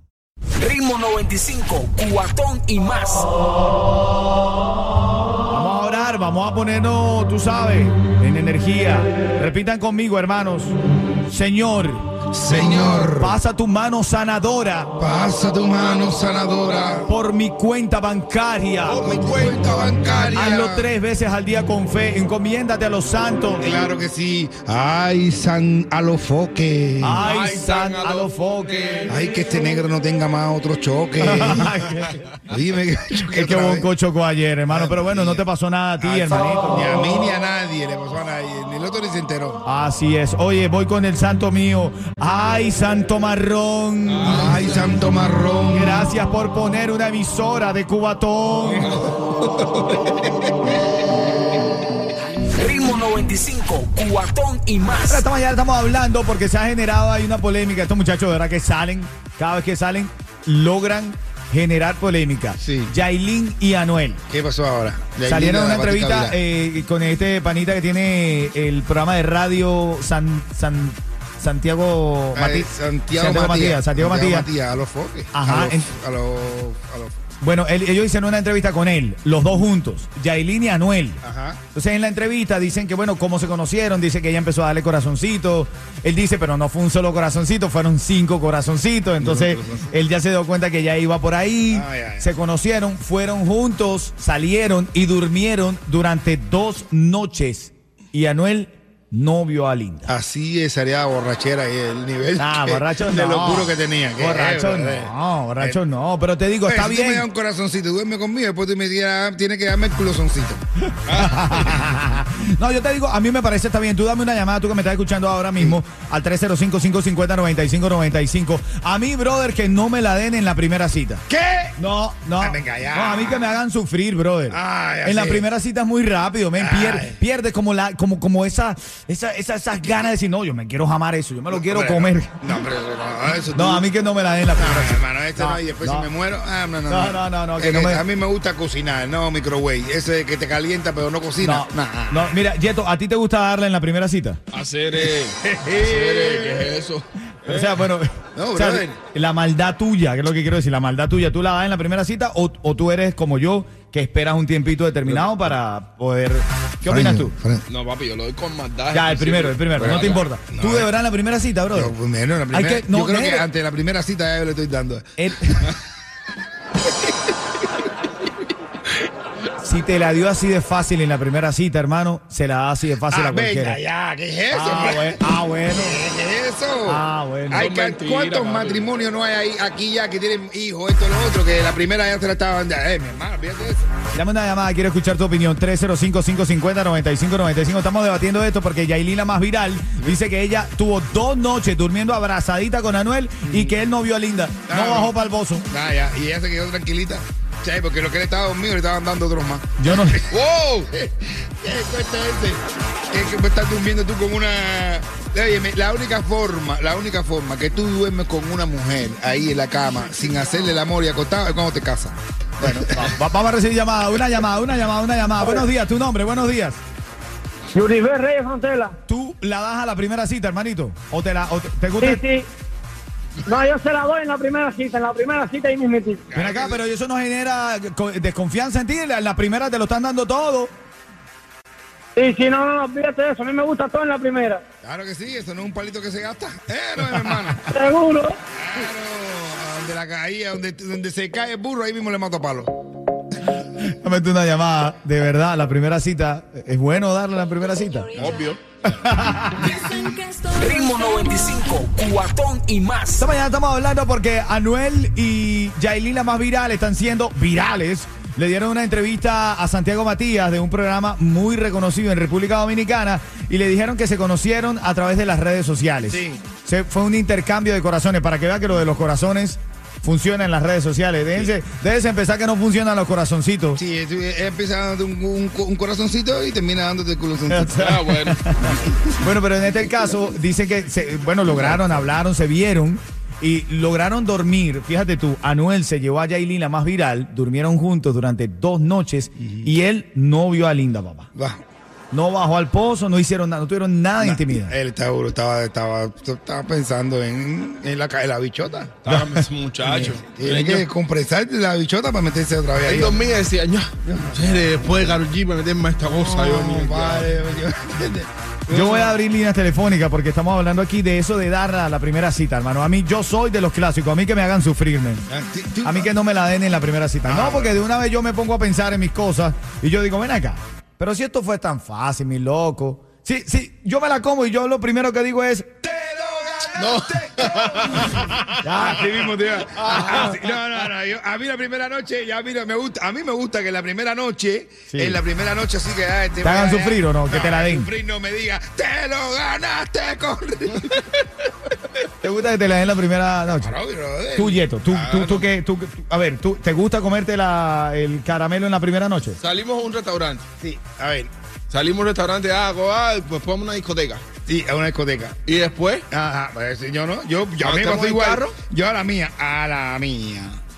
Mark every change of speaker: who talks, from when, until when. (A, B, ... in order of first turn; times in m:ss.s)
0:00.6-0:03.3 A
0:05.5-0:14.9 B
0:12.3-0:13.4 C
0:15.0-0:17.1 C
0:17.0-0:19.1 B
0:18.9-0:20.6 D
0:19.0-0:20.9 C
0:20.3-0:23.9 B
0:23.6-0:27.3 C
0:27.0-0:28.8 B
0:27.2-0:29.1 D
0:29.1-0:31.8 C
0:31.2-0:32.3 B
0:32.5-0:33.9 C
0:33.2-0:36.8 B
0:34.7-0:35.4 C
0:36.0-0:39.6 C
0:39.6-0:44.4 B
0:44.1-0:45.0 D
0:44.2-0:46.0 C
0:45.7-0:48.9 B
0:48.8-0:50.4 D
0:52.5-0:55.2 A
0:55.1-1:04.2 B
1:02.6-1:02.9 C
1:04.3-1:06.3 C
1:05.2-1:14.5 B
1:12.3-1:17.2 C
1:15.3-1:15.9 B
1:17.4-1:21.2 B
1:21.2-1:21.6 C
1:21.7-1:40.1 B
1:29.2-1:29.9 C
1:31.7-1:32.3 C
1:40.1-1:45.8 C
1:42.4-1:47.2 B
1:46.6-1:50.6 C
1:51.0-1:51.8 D
1:51.1-2:01.2 B
2:01.3-2:01.8 C
2:01.8-2:12.5 B
2:02.4-2:03.5 C
2:04.5-2:05.4 C
2:06.6-2:07.2 C
2:11.5-2:13.8 C
2:13.5-2:16.1 B
2:14.6-2:22.4 C
2:16.9-2:18.0 B
2:21.4-2:24.4 B
2:24.5-2:27.8 D
2:25.0-2:26.7 C
2:27.4-2:37.3 B
2:28.3-2:29.0 C
2:36.9-2:37.6 C
2:37.7-2:40.3 D
2:38.9-2:41.9 B
2:39.8-2:40.9 C
2:41.7-2:45.1 C
2:42.5-2:43.5 B
2:45.2-2:45.7 B
2:49.6-2:53.8 B
2:53.1-2:55.2 C
2:54.5-2:56.0 B
2:55.7-3:03.8 C
2:56.8-2:57.7 B
2:57.5-2:59.0 D
3:04.1-3:15.7 B
3:13.4-3:13.7 C
3:14.7-3:15.1 C
3:15.7-3:20.3 C
3:19.8-3:20.2 B
3:20.3-3:20.9 D
3:21.0-3:32.8 C
3:32.6-3:36.8 B
3:37.7-3:38.9 E
3:39.1-3:42.2 B
3:42.0-3:42.5 E
3:43.4-3:46.2 E
3:46.3-3:46.8 C
3:46.3-3:50.7 B
3:52.2-3:54.6 E
3:54.8-3:57.7 C
3:57.7-3:58.4 E
3:58.5-4:02.7 C
4:03.7-4:08.2 B
4:08.2-4:08.8 D
4:08.8-4:09.9 B
4:10.4-4:13.3 A
4:13.2-4:33.8 B
4:26.1-4:26.4 C
4:33.8-4:37.7 C
4:37.5-4:51.3 B
4:37.8-4:38.4 D
4:41.5-4:41.8 C
4:51.3-4:51.6 C
4:52.1-4:54.7 B
4:54.2-4:59.0 C
4:59.0-5:00.9 D
4:59.1-4:59.4 B
4:59.8-5:03.2 C
5:02.8-5:07.3 D
5:04.1-5:04.6 C
5:06.0-5:09.0 C
5:08.7-5:15.2 B
5:15.3-5:16.1 C
5:15.8-5:25.7 B
5:17.2-5:17.7 C
5:25.8-5:41.2 C
5:26.7-5:28.9 D
5:28.6-5:29.1 B
5:29.8-5:30.5 D
5:34.9-5:35.2 B
5:36.4-5:37.9 B
5:42.2-5:43.7 B
5:43.6-5:44.6 C
5:44.3-5:49.4 B
5:44.9-5:45.4 D
5:49.4-5:50.4 D
5:50.6-5:51.3 C
5:51.7-5:54.2 D
5:54.4-5:55.4 C
5:55.4-5:56.0 D
5:56.1-6:00.6 C
5:57.6-5:58.6 D